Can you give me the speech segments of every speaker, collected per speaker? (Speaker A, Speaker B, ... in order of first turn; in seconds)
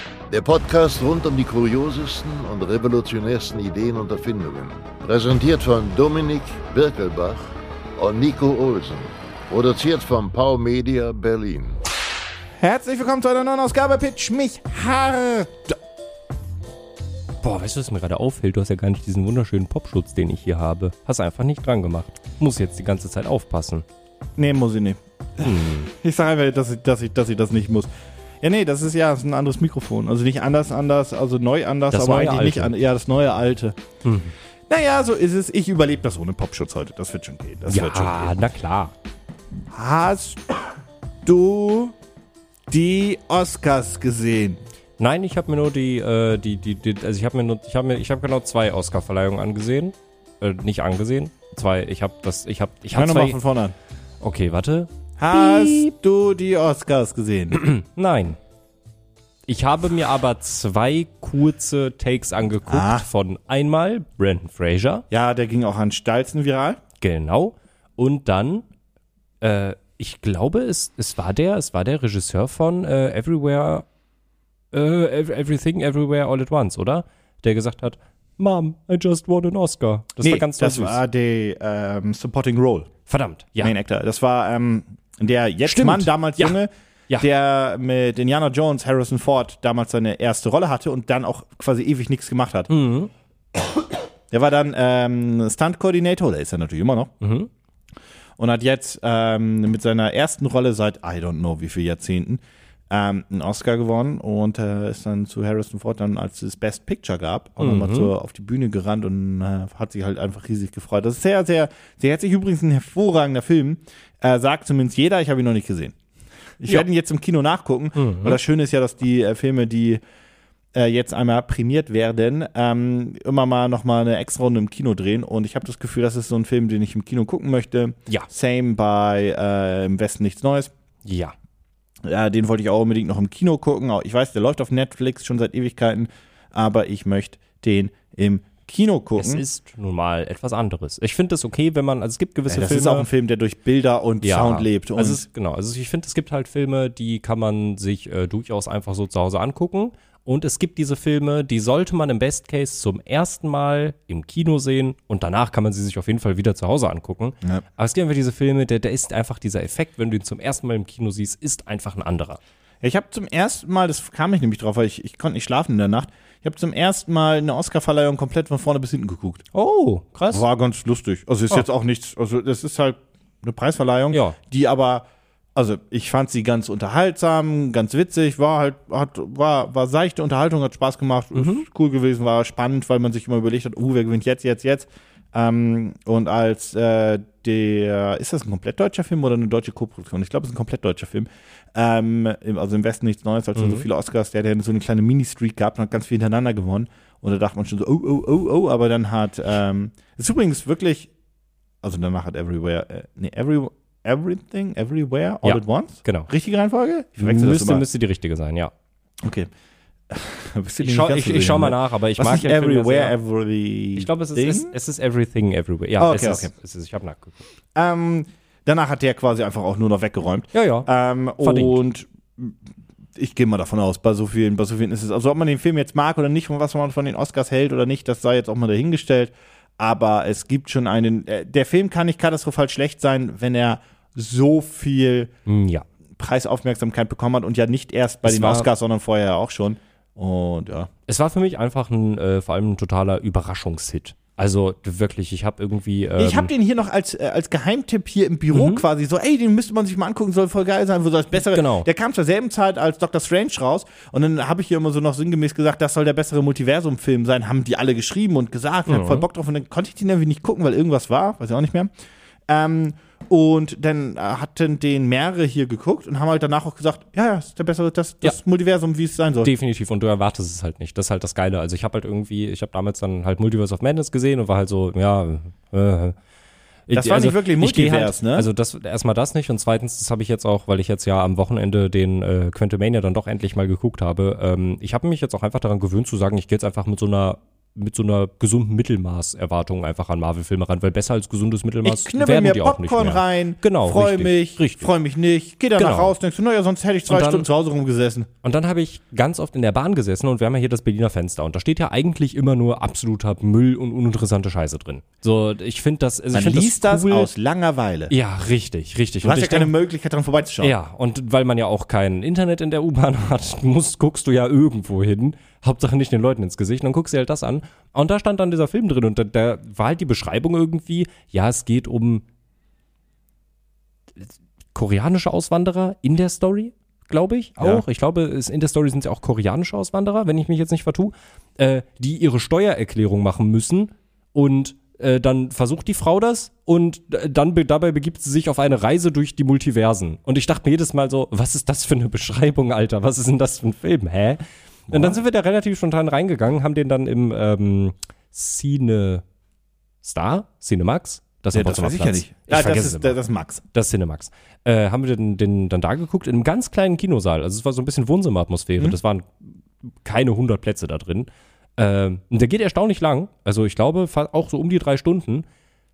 Speaker A: 0.3-11.8
Speaker B: 12.6-15.8, 24.4-27.9, 28.4-33.8, 34.7-38.3, 39.7-40.6, 41.2-41.9, 42.7-44.6, 52.9-53.8, 55.2-57.6, 62.7-63.1, 65.1-66.8, 80.2-82.9, 83.6-92.7, 94.3-97.1, 98.4-116.0, 116.6-120.0, 120.7-130.7, 132.0-139.4, 142.5-145.2, 162.8-169.4, 170.3-201.1, 201.8-207.8, 209.2-209.5, 210.1-214.7, 216.0-216.5, 217.8-222.6, 223.2-235.3, 236.2-240.9, 246.2-261.9, 262.5-269.5, 276.9-278.5, 291.8-298.3, 306.3-308.1, 309.2-310.7, 344.9-345.2, 351.5-353.6
Speaker C: 17.4-23.8, 25.4-25.9, 31.9-32.7, 34.0-34.3, 37.7-38.9, 45.0-53.4, 54.2-55.9, 57.5-58.4, 59.5-65.0, 67.0-68.7, 69.4-73.8, 74.7-81.0, 83.1-83.7, 85.7-86.6, 92.7-93.1, 97.2-97.5, 107.6-108.1, 118.0-118.4, 131.1-131.3, 139.2-143.1, 144.2-162.4, 169.5-170.4, 174.1-174.3, 181.3-181.7, 193.6-193.8, 205.4-206.3, 207.2-208.7, 210.8-213.1, 213.9-217.4, 220.5-220.9, 221.4-221.8, 235.5-235.8, 238.2-238.7, 241.1-246.5, 248.5-248.8, 251.5-251.9, 258.9-259.2, 269.4-276.1, 276.9-294.9, 295.8-296.1, 297.1-297.4, 298.4-307.3, 308.1-309.7, 310.6-322.2, 324.7-349.2, 350.0-353.1, 353.7-365.4